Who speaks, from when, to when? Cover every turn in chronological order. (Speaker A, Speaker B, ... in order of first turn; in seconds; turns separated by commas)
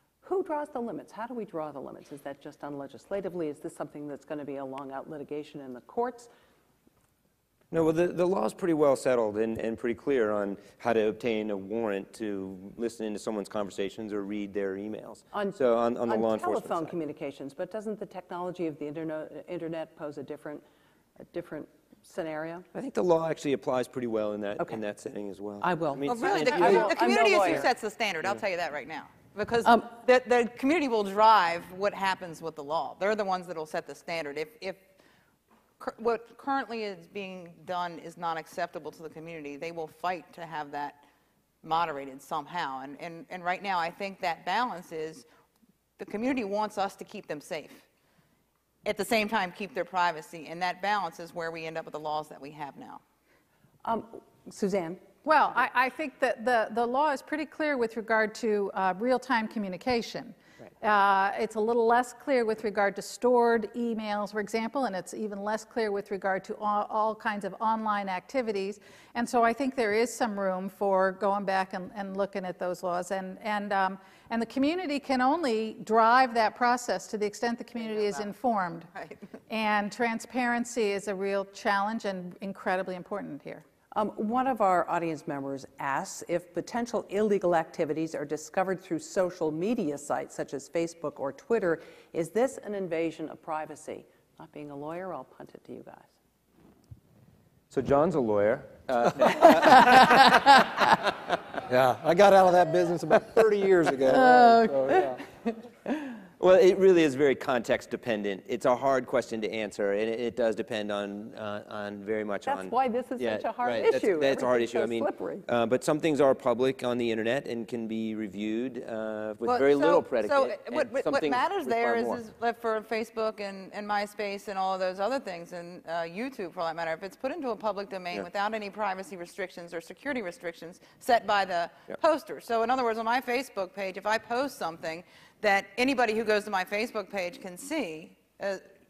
Speaker A: 0.2-6.3, Speaker B: 7.7-17.0, Speaker A: 15.3-20.6, Speaker A: 21.2-22.7, Speaker B: 22.7-26.9, Speaker A: 25.6-27.7, Speaker C: 26.1-34.9, Speaker A: 29.6-29.9, Speaker C: 35.8-41.0, Speaker C: 41.6-45.2, Speaker C: 46.0-47.9, Speaker C: 48.9-53.0, Speaker A: 53.8-55.1, Speaker D: 55.2-78.9, Speaker C: 77.8-78.3, Speaker C: 78.9-79.2, Speaker D: 79.5-83.7, Speaker A: 83.9-96.1, Speaker B: 97.7-100.6, Speaker A: 99.5-100.3, Speaker E: 101.7-105.2, Speaker A: 104.1-106.1, Speaker B: 106.4-122.2, Speaker A: 112.5-115.5, Speaker C: 119.4-138.7